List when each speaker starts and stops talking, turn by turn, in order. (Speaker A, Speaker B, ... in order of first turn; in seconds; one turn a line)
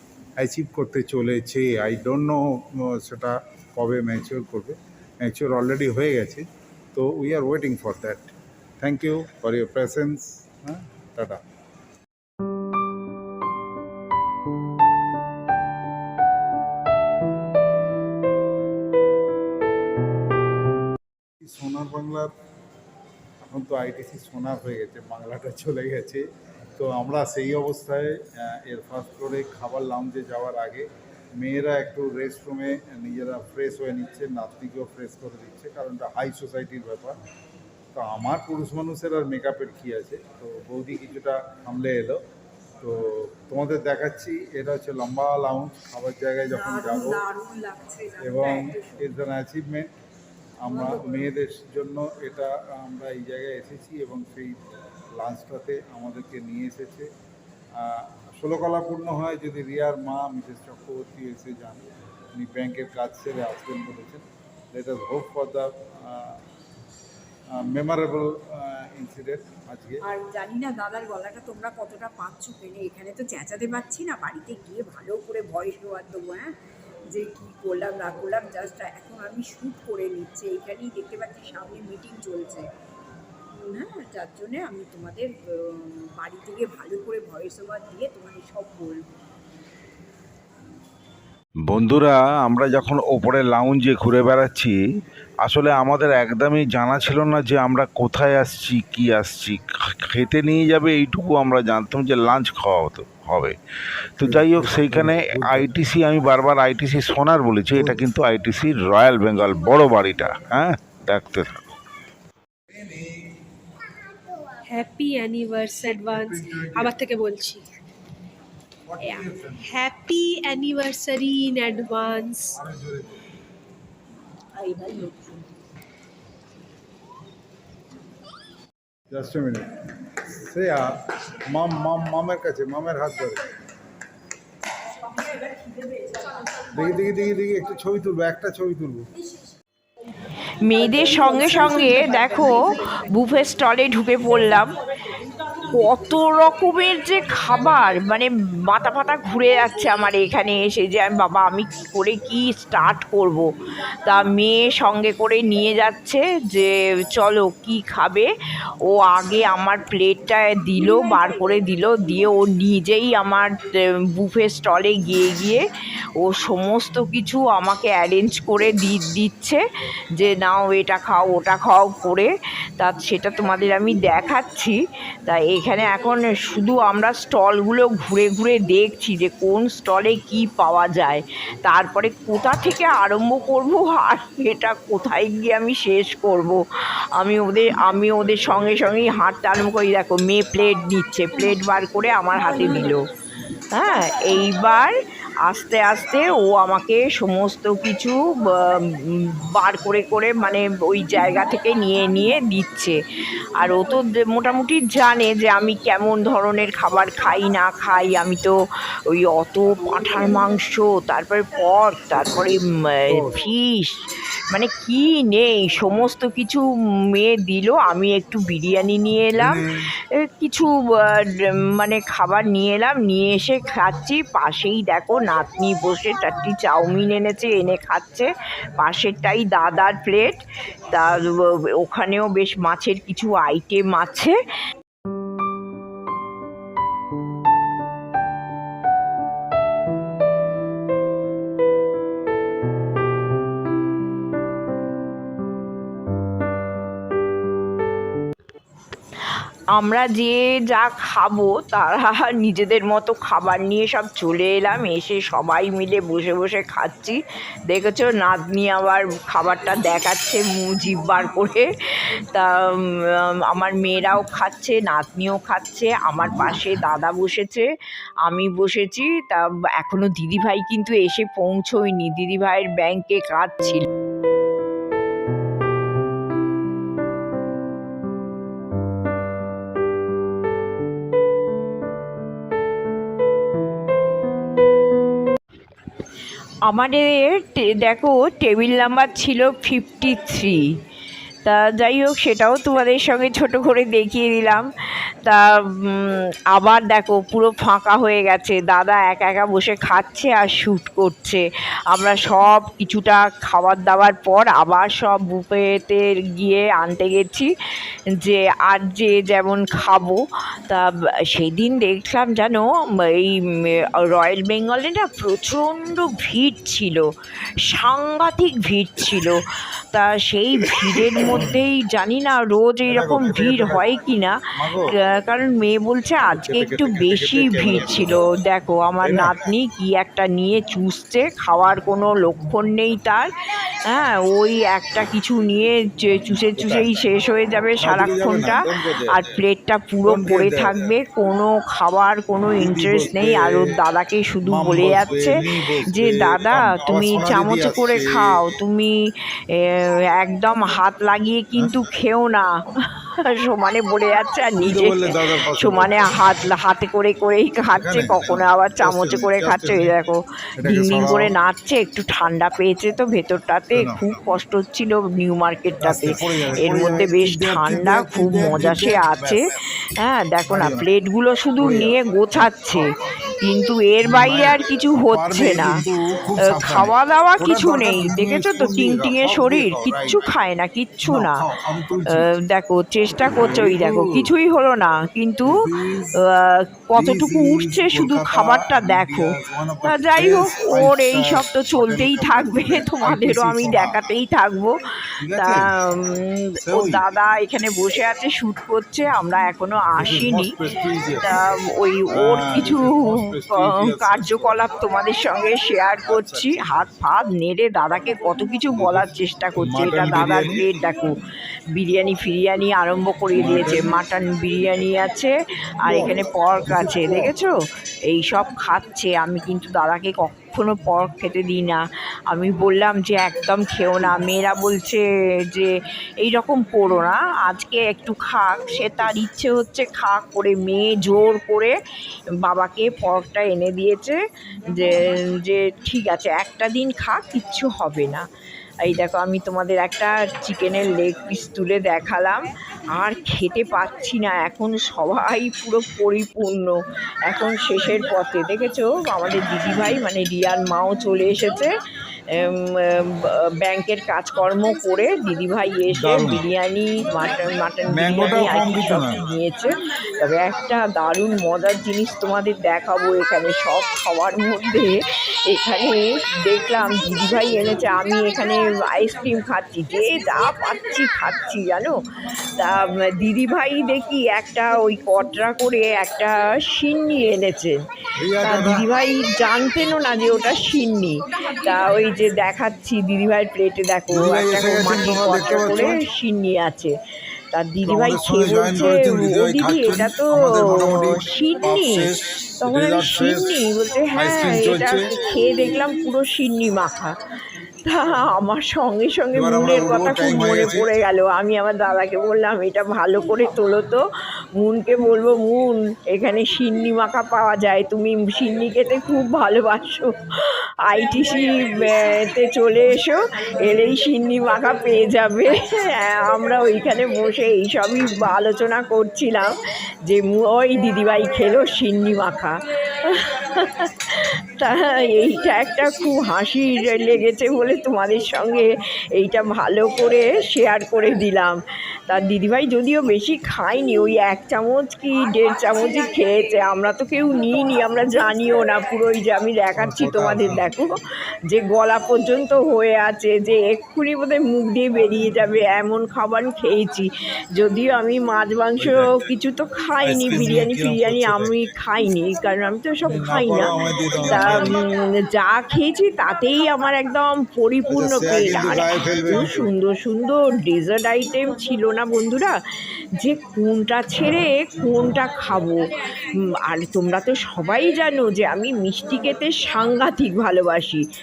Speaker A: 0.4-11.4
Speaker A: 21.4-22.3
Speaker A: 23.4-26.2
Speaker A: 26.8-30.9
Speaker A: 31.4-37.2
Speaker A: 37.9-42.2
Speaker A: 42.8-47.3
Speaker B: 47.0-48.8
Speaker A: 48.2-49.9
Speaker A: 50.6-54.6
Speaker A: 55.1-57.1
Speaker A: 57.8-66.4
Speaker A: 67.5-70.0
Speaker B: 70.1-76.5
Speaker B: 77.1-82.7
Speaker B: 83.6-89.1
Speaker C: 91.7-94.8
Speaker C: 95.4-103.5
Speaker C: 104.1-111.7
Speaker A: 104.2-105.8
Speaker A: 107.7-108.0
Speaker A: 112.7-113.4
Speaker D: 114.6-117.7
Speaker A: 115.9-117.0
Speaker A: 118.9-119.7
Speaker D: 119.0-122.6
Speaker A: 122.5-123.2
Speaker B: 124.6-125.5
Speaker A: 129.1-133.4
Speaker A: 136.7-139.1
Speaker E: 140.3-144.7
Speaker E: 145.7-153.5
Speaker E: 154.0-158.3
Speaker E: 158.8-165.6
Speaker E: 166.2-169.6
Speaker E: 170.1-193.0
Speaker E: 193.7-194.9
Speaker E: 195.4-203.0
Speaker E: 203.6-208.5
Speaker E: 209.1-234.3
Speaker A: 213.1-213.4
Speaker A: 219.4-219.9
Speaker E: 249.7-261.7
Speaker E: 262.3-267.7
Speaker E: 268.2-273.9
Speaker E: 286.6-290.7
Speaker E: 291.4-294.7
Speaker E: 295.2-307.5
Speaker E: 308.2-317.1
Speaker E: 317.6-333.3
Speaker A: 321.2-321.5
Speaker A: 322.9-323.9
Speaker A: 324.6-324.9
Speaker A: 326.3-328.3
Speaker A: 329.0-329.4
Speaker E: 333.8-345.4
Speaker A: 336.6-337.1
Speaker A: 337.8-339.4
Speaker A: 340.0-340.9
Speaker A: 342.6-343.7
Speaker A: 344.4-348.4
Speaker E: 345.9-348.9
Speaker E: 349.5-372.8
Speaker A: 354.6-356.0
Speaker A: 357.7-359.9
Speaker A: 360.6-361.3
Speaker A: 363.7-364.1
Speaker A: 365.8-369.6
Speaker A: 370.5-370.9
Speaker A: 371.6-373.3
Speaker E: 373.4-375.8
Speaker A: 374.0-380.2
Speaker E: 376.5-381.4
Speaker A: 381.0-382.3
Speaker E: 382.1-385.6
Speaker A: 383.3-384.3
Speaker A: 385.4-386.2
Speaker E: 386.2-389.3
Speaker A: 386.9-394.0
Speaker E: 389.8-394.8
Speaker A: 395.2-395.7
Speaker E: 395.3-400.6
Speaker A: 396.6-397.0
Speaker A: 400.0-401.3
Speaker E: 401.2-411.1
Speaker A: 402.1-404.6
Speaker A: 406.1-406.9
Speaker A: 408.7-410.9
Speaker E: 411.7-417.5
Speaker A: 413.3-413.9
Speaker A: 415.9-417.3
Speaker E: 418.1-431.7
Speaker E: 432.4-438.3
Speaker E: 438.8-451.7
Speaker E: 452.3-471.9
Speaker A: 455.9-456.4
Speaker A: 457.9-459.2
Speaker E: 472.5-477.8
Speaker A: 478.2-478.9
Speaker E: 478.4-486.9
Speaker A: 484.1-486.0
Speaker E: 487.5-492.1
Speaker A: 487.8-493.5
Speaker E: 492.6-497.2
Speaker A: 494.1-495.1
Speaker E: 497.8-504.1
Speaker A: 499.3-501.0
Speaker E: 504.6-562.6
Speaker A: 539.8-540.7
Speaker A: 548.8-549.1
Speaker A: 550.0-551.6
Speaker A: 553.0-554.9
Speaker A: 557.9-559.7
Speaker E: 563.1-571.0